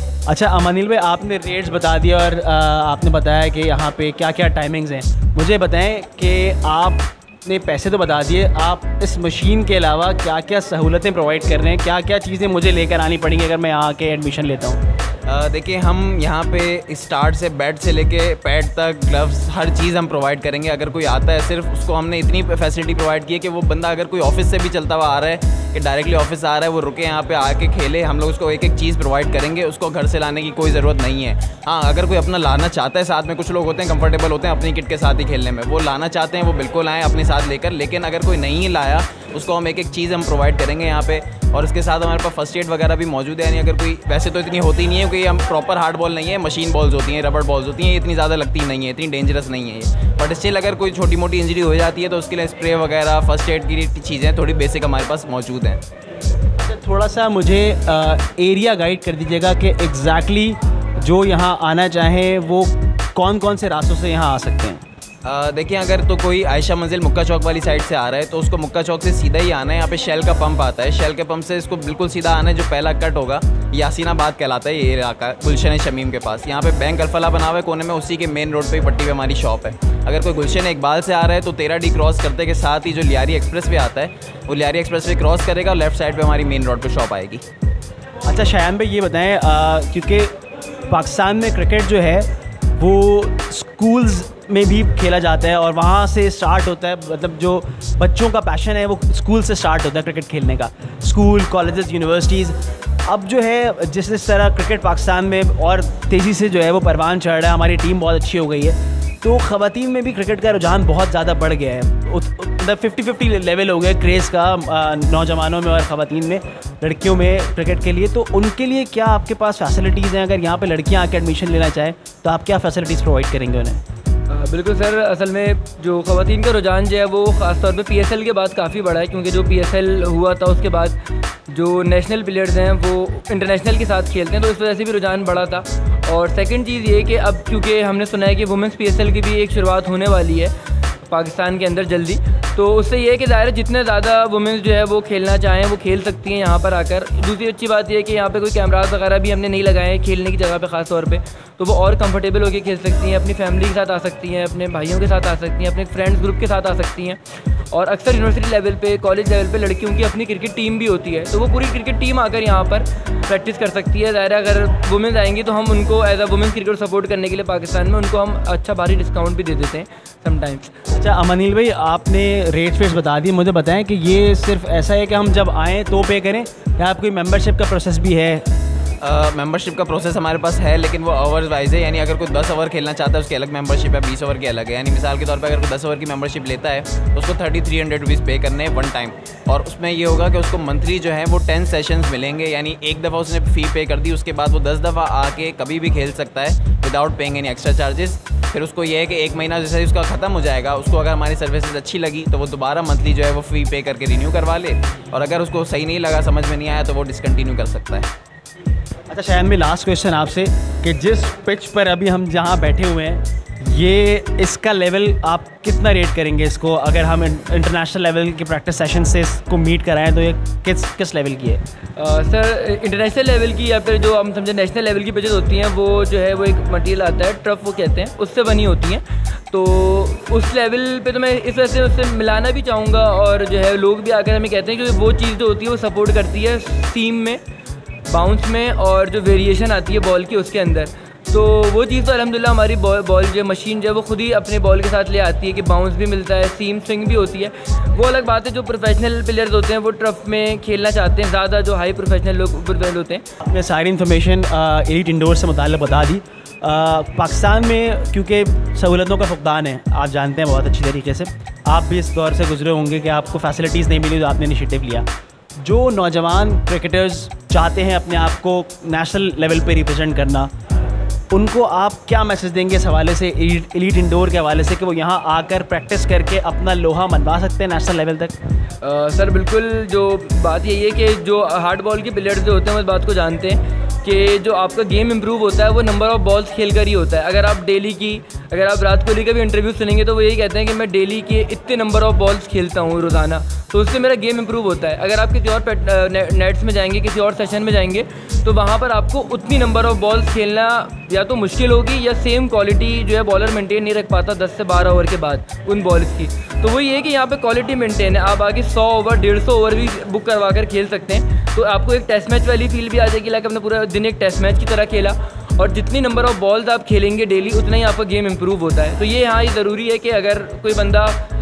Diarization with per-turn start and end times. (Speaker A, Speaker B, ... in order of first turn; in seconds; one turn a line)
Speaker A: 0.3-14.8
Speaker B: 15.3-55.8
Speaker A: 56.6-64.8
Speaker B: 65.2-87.4
Speaker A: 88.3-90.3
Speaker A: 90.9-123.8
Speaker C: 124.3-131.0
Speaker C: 131.5-140.5
Speaker C: 141.1-157.2
Speaker C: 157.7-170.7
Speaker A: 170.9-178.5
Speaker B: 179.0-208.1
Speaker A: 209.1-221.6
Speaker C: 222.0-237.4
Speaker C: 238.1-253.2
Speaker A: 253.4-265.1
Speaker A: 265.6-270.5
Speaker A: 271.3-278.4
Speaker C: 278.8-321.2